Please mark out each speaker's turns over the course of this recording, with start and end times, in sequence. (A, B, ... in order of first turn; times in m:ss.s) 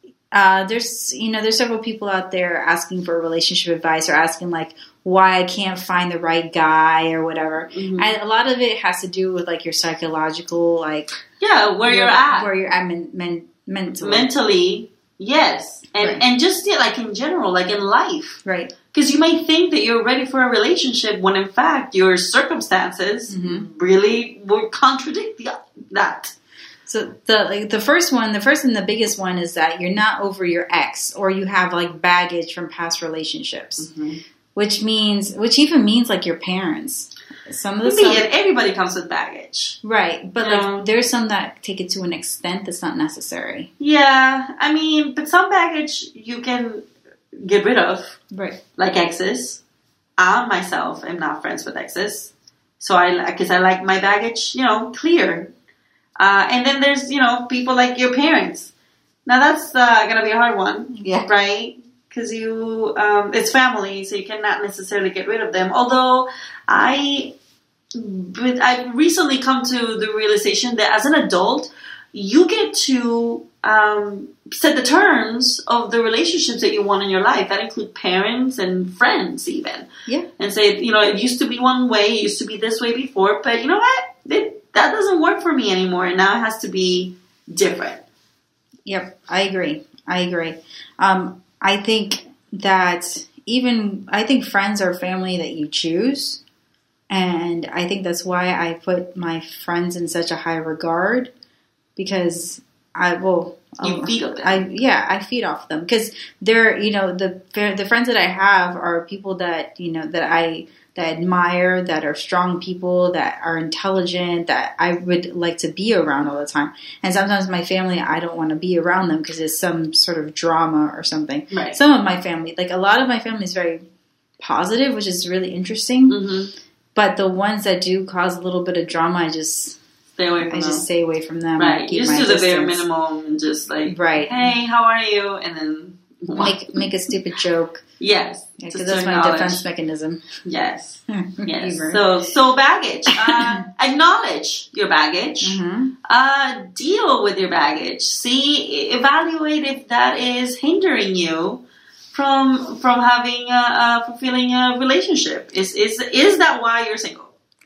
0:00.3-0:11.2 A
0:07.7-0:08.1 B
0:11.4-0:12.5 B
0:11.8-0:14.3 A
0:14.0-0:26.3 B
0:18.4-0:18.7 A
0:23.3-0:23.7 A
0:26.8-0:33.9 A
0:33.8-0:34.2 B
0:34.5-0:38.2 A
0:37.8-0:39.8 B
0:39.8-0:43.7 A
0:40.4-0:40.9 B
0:43.8-0:46.9 B
0:47.4-0:48.2 B
0:48.3-0:48.6 A
0:48.8-0:49.6 B
0:50.2-0:55.5 B
0:56.2-0:58.7 B
0:59.2-1:07.3 B
1:00.9-1:01.3 A
1:07.9-1:19.9 B
1:20.4-1:28.0 B
1:28.8-1:36.4 A
1:37.1-1:41.3 A
1:42.0-2:03.8 A
1:43.8-1:44.6 B
2:01.5-2:01.8 B
2:04.4-2:06.2 A
2:06.1-2:06.5 B
2:06.9-2:09.8 A
2:10.2-2:10.8 B
2:10.5-2:12.8 A
2:11.6-2:16.8 B
2:13.9-2:14.5 A
2:16.3-2:17.8 A
2:18.0-2:19.6 B
2:18.6-2:20.2 A
2:20.4-2:37.3 B
2:21.1-2:22.0 A
2:23.1-2:23.6 A
2:25.4-2:25.9 A